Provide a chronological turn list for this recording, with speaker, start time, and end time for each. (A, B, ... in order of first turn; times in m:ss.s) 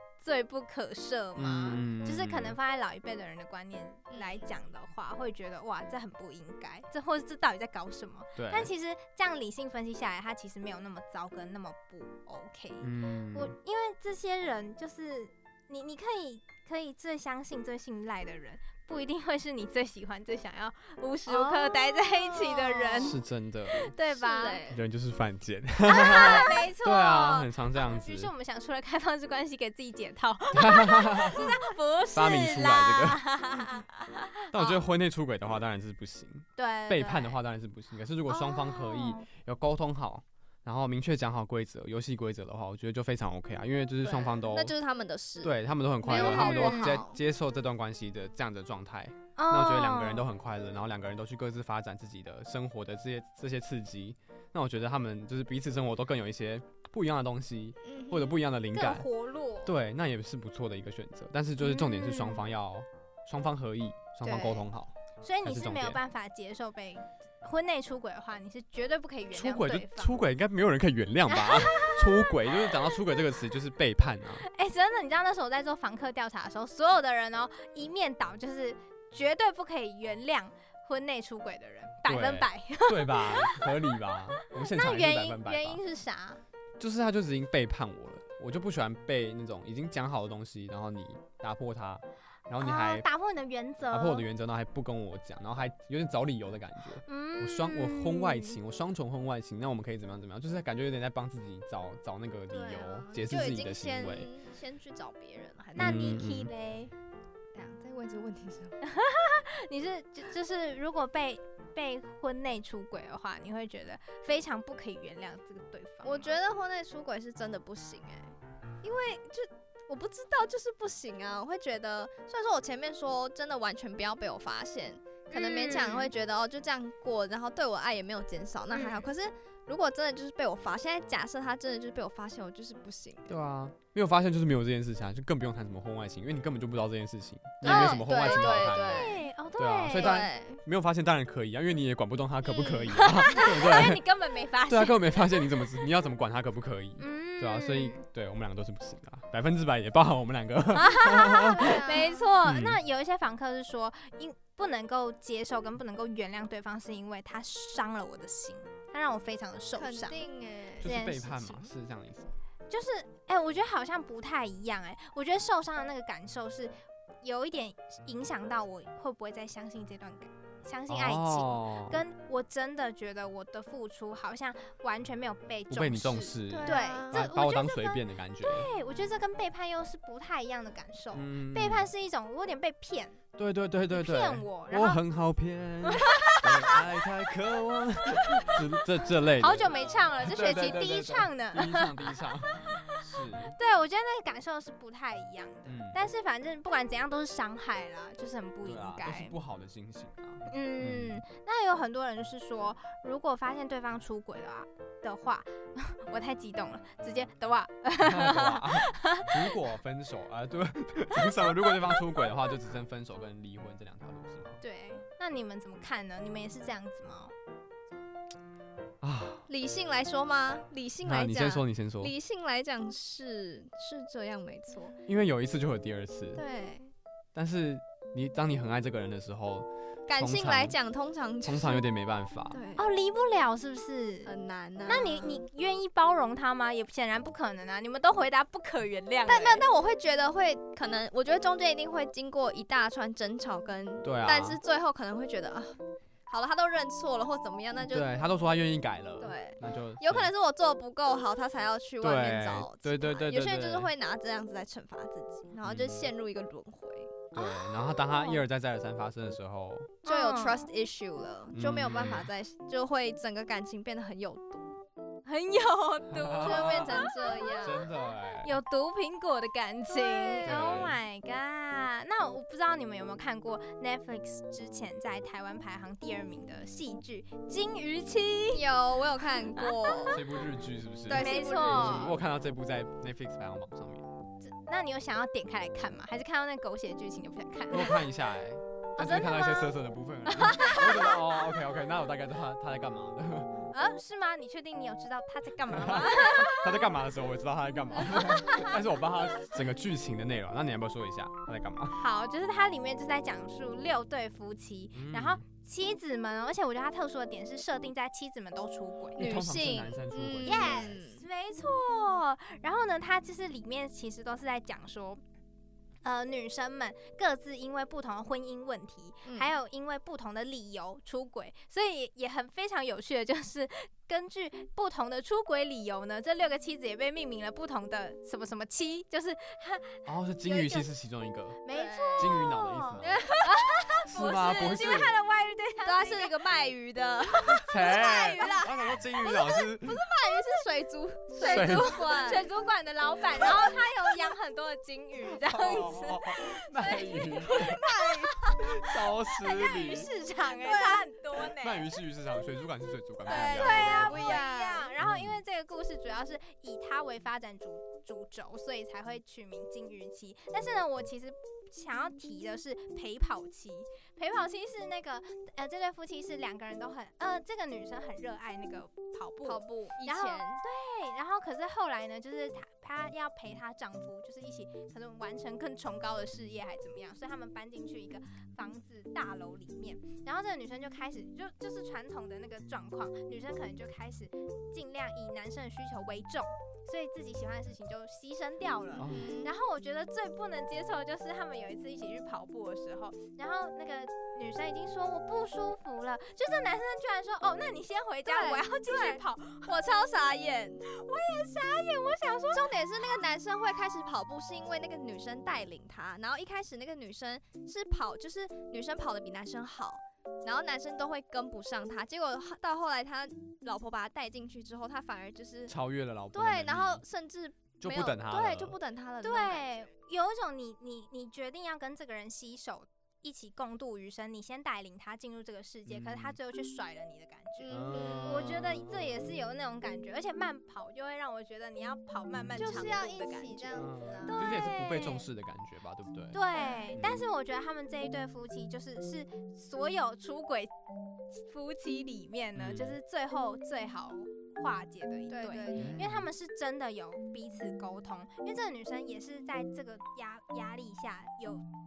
0:00.2-0:23.2 A
0:01.4-0:02.6 B
0:04.1-0:04.5 C
0:08.4-0:08.7 B
0:12.8-0:13.5 B
0:21.3-0:23.2 C
0:23.0-0:23.9 B
0:23.7-0:24.6 A
0:24.1-0:24.8 C
0:24.7-0:28.3 B
0:25.8-0:34.8 A
0:26.1-0:26.6 C
0:30.5-0:31.6 B
0:32.1-0:33.2 B
0:34.5-0:44.7 B
0:36.6-0:37.4 A
0:38.3-0:39.2 A
0:44.0-0:47.2 C
0:45.4-0:59.1 B
0:46.0-0:47.0 A
0:49.4-0:50.3 A
0:57.8-0:58.4 C
0:58.7-0:59.7 A
0:59.6-1:04.9 B
1:01.7-1:02.4 C
1:04.2-1:04.7 C
1:05.2-1:10.1 A
1:05.4-1:06.0 B
1:09.3-1:14.4 B
1:11.3-1:12.3 A
1:14.5-1:26.4 A
1:22.0-1:25.8 B
1:26.8-1:33.0 B
1:32.6-1:34.2 A
1:33.9-1:44.3 B
1:37.0-1:38.6 A
1:42.5-1:46.2 C
1:45.8-1:46.9 A
1:45.8-1:46.5 B
1:47.5-1:48.8 C
1:48.8-1:56.4 A
1:56.0-2:13.3 C
2:05.3-2:06.1 A
2:08.7-2:09.1 A
2:13.3-2:24.0 B
2:17.6-2:19.2 C
2:17.6-2:18.0 A
2:18.9-2:20.2 A
2:19.9-2:20.6 C
2:22.4-2:25.5 A
2:24.6-2:31.8 B
2:27.0-2:28.0 A
2:30.7-2:40.2 A
2:31.5-2:32.3 C
2:32.4-2:32.8 B
2:39.8-2:40.9 C
2:40.8-2:41.7 A
2:40.8-2:42.3 B
2:42.7-3:03.2 A
2:50.9-2:52.0 B
2:55.7-2:58.7 B
2:56.5-2:57.2 C
3:01.1-3:01.9 B
3:03.4-3:13.5 B
3:03.9-3:05.0 A
3:05.9-3:06.7 A
3:09.4-3:19.4 A
3:15.6-3:16.0 B
3:18.6-3:21.2 B
3:20.5-3:29.3 A
3:28.0-3:34.6 B
3:34.6-3:37.3 A
3:39.0-3:39.5 B
3:39.5-3:45.0 C
3:41.0-3:42.1 B
3:45.0-3:46.4 B
3:46.4-3:46.9 C
3:47.3-3:50.8 B
3:50.1-3:51.8 C
3:51.4-3:52.6 B
3:52.5-3:52.8 C
3:52.8-3:54.3 A
3:54.2-3:55.4 C
3:54.8-3:59.6 A
3:59.3-4:08.1 C
4:04.0-4:04.6 B
4:07.9-4:10.3 B
4:09.2-4:17.8 C
4:12.0-4:13.9 B
4:15.6-4:16.1 B
4:17.3-4:20.0 B
4:17.4-4:18.4 A
4:20.0-4:24.7 C
4:20.0-4:20.7 A
4:21.5-4:22.3 B
4:25.2-4:27.8 A
4:26.1-4:26.9 B
4:26.4-4:27.9 C
4:27.6-4:28.5 B
4:28.4-4:38.6 A
4:29.9-4:30.9 C
4:30.4-4:31.0 B
4:38.5-4:40.3 C
4:39.6-4:40.1 A
4:40.1-4:44.1 B
4:41.1-4:42.2 C
4:41.2-4:42.1 A
4:44.4-4:48.0 A
4:47.7-4:53.6 B
4:49.0-4:49.7 A
4:50.2-4:51.2 A
4:53.7-4:56.8 A
4:55.7-5:01.9 B
4:58.2-4:58.7 A
5:01.9-5:09.4 A
5:04.9-5:05.4 B
5:09.2-5:11.0 B
5:09.2-5:11.2 C
5:10.4-5:15.2 A
5:16.0-5:30.9 A
5:19.2-5:19.5 C
5:30.0-5:31.6 B
5:31.6-5:36.4 A
5:31.7-5:32.4 C
5:32.2-5:33.2 B
5:33.0-5:34.0 C
5:34.0-5:35.1 B
5:35.8-5:37.7 C
5:37.3-5:38.8 A
5:37.7-5:40.0 B
5:38.4-5:38.6 C
5:39.2-5:42.5 C
5:41.4-5:48.8 A
5:41.4-5:42.0 B
5:43.4-5:43.7 C
5:45.4-5:47.8 B
5:47.4-5:48.6 C
5:48.4-5:50.1 B
5:49.4-5:51.8 A
5:50.5-5:51.5 C
5:51.6-5:54.4 B
5:53.2-5:54.9 C
5:53.3-6:39.7 A
5:55.0-5:55.4 B
6:09.4-6:10.6 C
6:29.0-6:29.3 B
6:29.1-6:29.5 C
6:38.2-6:40.8 C
6:40.9-6:42.8 A
6:42.5-6:55.7 C
6:55.7-6:57.0 B
6:56.3-6:59.9 C
6:57.8-6:58.8 B
6:59.2-7:15.2 A
7:05.9-7:06.4 B
7:07.6-7:08.4 C
7:07.7-7:09.2 B
7:12.6-7:14.5 C
7:13.8-7:16.4 B
7:16.3-7:20.7 A
7:16.6-7:16.8 C
7:17.0-7:17.2 B
7:21.3-7:31.6 A
7:22.6-7:23.0 B
7:25.3-7:26.1 C
7:25.7-7:26.3 B